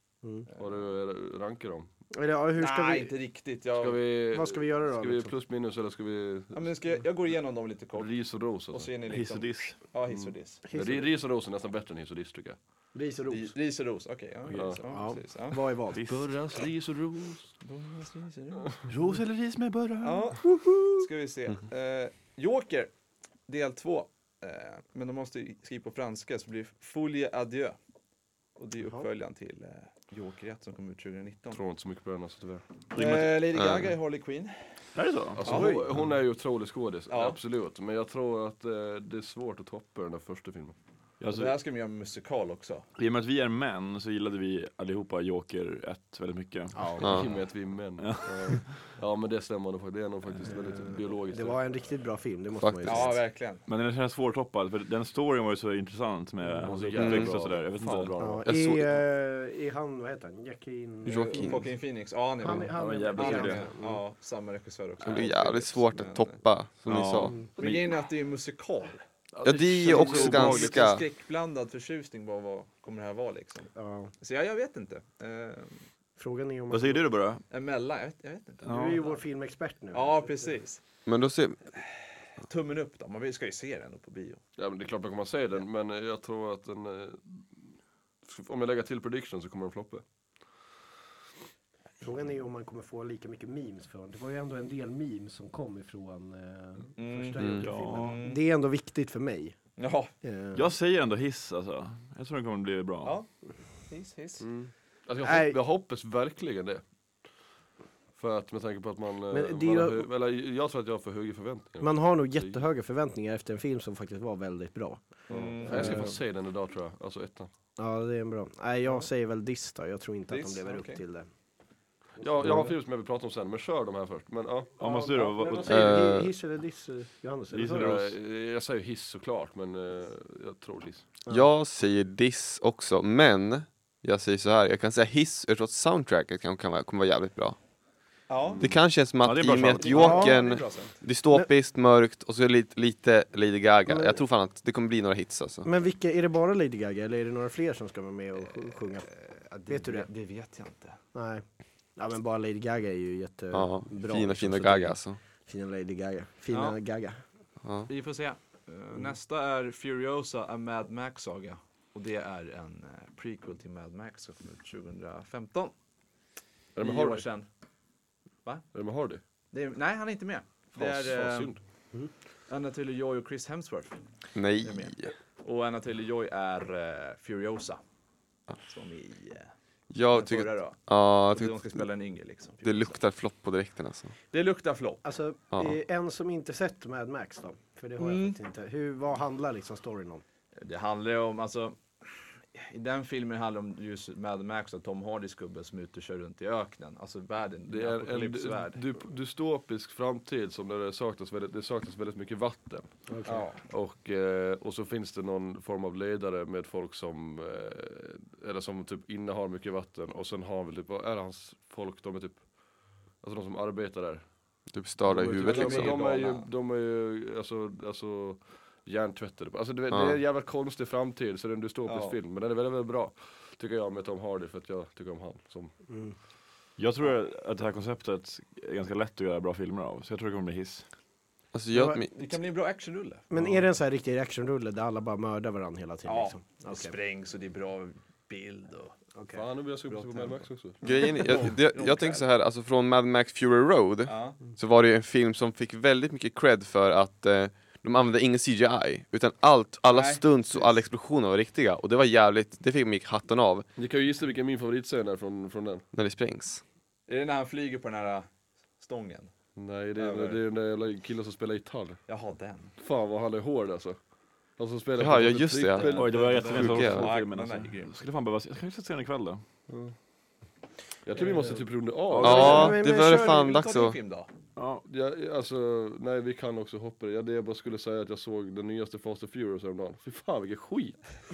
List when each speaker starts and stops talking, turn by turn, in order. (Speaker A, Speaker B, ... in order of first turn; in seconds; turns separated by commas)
Speaker A: 0.5-0.9, Speaker B: 0.6-1.9, Speaker C: 2.1-3.1, Speaker A: 2.6-4.0, Speaker B: 3.8-6.7, Speaker C: 4.3-5.3, Speaker A: 6.5-10.6, Speaker B: 8.0-8.9, Speaker D: 9.1-9.8, Speaker B: 10.2-12.6, Speaker C: 10.7-11.1, Speaker C: 12.9-13.5, Speaker A: 13.3-15.6, Speaker B: 14.5-14.8, Speaker C: 14.9-16.1, Speaker D: 15.9-16.3, Speaker B: 16.1-17.5, Speaker A: 17.6-18.9, Speaker D: 18.9-20.6, Speaker A: 20.0-22.9, Speaker A: 23.5-27.8, Speaker A: 28.6-31.6, Speaker B: 31.5-32.6, Speaker A: 32.9-34.6, Speaker D: 33.0-33.3, Speaker E: 33.6-33.9, Speaker D: 35.0-35.4, Speaker B: 35.3-40.8, Speaker A: 35.5-35.8, Speaker C: 35.5-35.9, Speaker A: 37.1-37.4, Speaker D: 41.2-41.6, Speaker A: 41.3-42.9, Speaker D: 43.0-47.2, Speaker C: 46.8-47.1, Speaker B: 47.0-51.6, Speaker E: 47.0-47.3, Speaker D: 48.0-48.7, Speaker C: 50.5-53.2, Speaker E: 52.6-53.1, Speaker A: 52.9-53.7, Speaker D: 53.7-58.4, Speaker B: 56.6-58.5, Speaker E: 57.0-57.4, Speaker C: 58.2-61.6, Speaker E: 58.5-59.0, Speaker E: 61.1-61.6, Speaker A: 61.1-66.4, Speaker C: 62.4-64.0, Speaker D: 62.5-63.7, Speaker E: 65.0-67.4, Speaker D: 66.8-67.9, Speaker A: 67.6-69.0, Speaker B: 69.4-70.7, Speaker E: 69.5-71.0, Speaker D: 69.8-70.7, Speaker A: 69.9-75.8, Speaker C: 73.8-74.1, Speaker C: 76.2-77.0, Speaker D: 76.7-77.4, Speaker A: 77.5-79.2, Speaker D: 78.7-79.0, Speaker C: 78.7-80.5, Speaker A: 79.9-80.8, Speaker E: 81.1-81.7, Speaker A: 82.4-84.4, Speaker B: 84.6-87.5, Speaker B: 88.2-90.0, Speaker C: 92.0-99.6, Speaker A: 97.0-98.4, Speaker E: 97.4-97.6, Speaker D: 97.6-98.2, Speaker A: 99.8-100.1, Speaker C: 100.2-100.7, Speaker D: 100.5-103.2, Speaker A: 103.0-103.3, Speaker A: 103.9-104.5, Speaker B: 104.4-106.8, Speaker C: 105.2-105.6, Speaker B: 108.2-112.6, Speaker C: 109.3-110.1, Speaker C: 111.8-116.1, Speaker A: 115.3-116.1, Speaker B: 115.3-117.5, Speaker C: 117.8-121.3, Speaker A: 120.3-121.0, Speaker B: 122.2-124.8, Speaker C: 122.2-122.8, Speaker D: 124.8-126.0, Speaker C: 124.8-128.1, Speaker E: 125.7-126.3, Speaker D: 127.5-128.1, Speaker B: 127.6-131.1, Speaker E: 131.3-137.6, Speaker A: 138.3-138.7, Speaker E: 138.6-145.7, Speaker D: 139.2-140.2, Speaker A: 139.8-141.0, Speaker C: 139.9-140.4, Speaker C: 143.9-144.2, Speaker C: 145.7-149.1, Speaker A: 149.1-151.0, Speaker C: 149.7-150.1, Speaker C: 151.1-151.4, Speaker C: 152.0-157.2, Speaker E: 153.5-155.2, Speaker A: 156.5-156.8, Speaker E: 157.6-157.9, Speaker A: 157.9-165.7, Speaker B: 166.8-167.2, Speaker A: 166.8-167.5, Speaker B: 168.7-169.2, Speaker A: 169.5-171.6, Speaker B: 170.7-171.6, Speaker A: 172.5-177.8, Speaker E: 174.3-175.1, Speaker A: 178.5-179.5, Speaker E: 179.9-181.8, Speaker A: 180.1-183.0, Speaker E: 182.6-184.1, Speaker A: 184.3-185.1, Speaker C: 185.0-190.2, Speaker A: 188.0-188.4, Speaker A: 190.6-198.8, Speaker B: 197.7-202.9, Speaker C: 203.1-203.5, Speaker A: 203.3-203.6, Speaker B: 203.7-214.3, Speaker E: 214.7-216.1, Speaker C: 215.2-215.6, Speaker B: 215.2-225.7, Speaker A: 215.4-216.5, Speaker E: 219.9-220.2, Speaker A: 221.9-222.2, Speaker C: 225.9-226.2, Speaker D: 226.8-230.8, Speaker E: 231.5-232.3, Speaker C: 231.7-232.0, Speaker A: 232.2-233.2, Speaker C: 233.3-236.9, Speaker D: 233.3-233.7, Speaker A: 236.1-238.9, Speaker C: 239.2-239.4, Speaker B: 239.3-240.8, Speaker A: 239.9-242.3, Speaker E: 240.8-253.7, Speaker A: 244.1-244.4, Speaker A: 249.9-250.7, Speaker B: 253.8-255.9, Speaker E: 255.9-256.6, Speaker A: 257.1-258.3, Speaker A: 258.8-259.3, Speaker B: 259.6-262.0, Speaker A: 260.0-260.4, Speaker A: 262.1-262.7, Speaker B: 262.8-264.0, Speaker B: 264.6-266.8, Speaker E: 265.0-267.1, Speaker A: 265.8-267.9, Speaker D: 265.9-269.4, Speaker B: 269.7-269.9, Speaker B: 271.1-272.7, Speaker A: 271.2-271.6, Speaker D: 272.1-272.8, Speaker C: 272.2-273.6, Speaker E: 272.2-274.0, Speaker A: 272.6-274.3, Speaker D: 274.6-274.8, Speaker B: 274.9-281.0